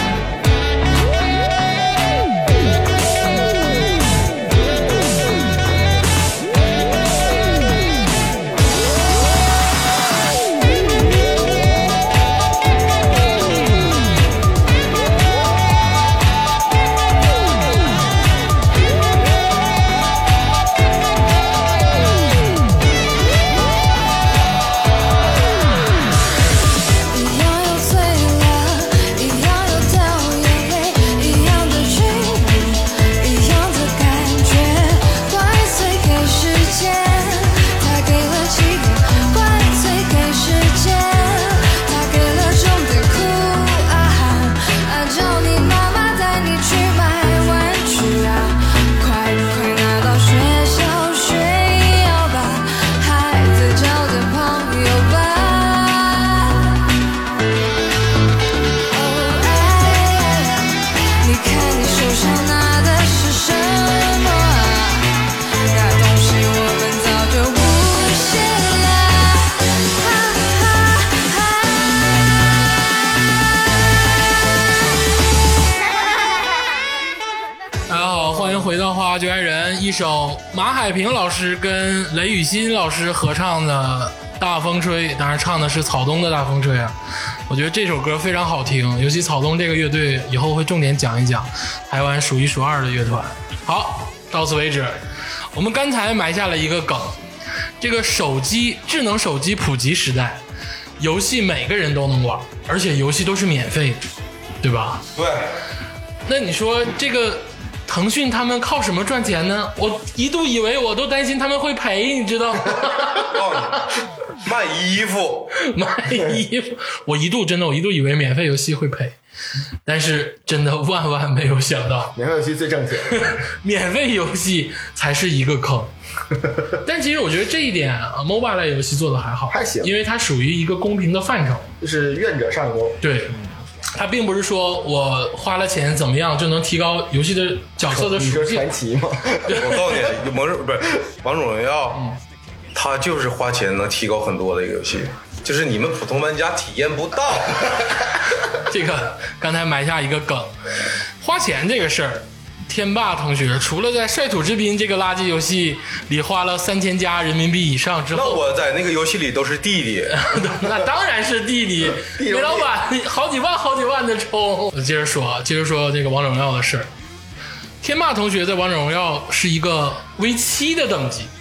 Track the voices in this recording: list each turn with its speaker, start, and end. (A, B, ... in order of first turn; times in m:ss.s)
0:27.1-0:56.8 A
0:58.9-1:11.8 A
1:17.9-1:27.0 B
1:27.5-1:35.0 B
1:35.5-1:37.2 B
1:37.8-1:40.4 B
1:41.0-1:44.0 B
1:44.6-1:45.0 B
1:45.2-1:45.5 C
1:46.3-1:53.9 B
1:53.2-1:53.9 C
1:54.4-1:55.5 C
1:55.6-1:59.2 B
1:59.9-2:02.1 B
2:02.1-2:03.3 D
2:03.2-2:05.9 B
2:06.8-2:11.7 B
2:09.5-2:09.9 D
2:11.8-2:13.0 D
2:13.0-2:13.4 B
2:13.9-2:18.7 B
2:17.9-2:19.7 D
2:19.6-2:22.0 C
2:22.7-2:27.9 C
2:28.7-2:30.5 B
2:31.2-2:38.4 B
2:38.1-2:40.2 C
2:40.1-2:46.9 B
2:42.0-2:42.7 D
2:47.8-2:51.3 B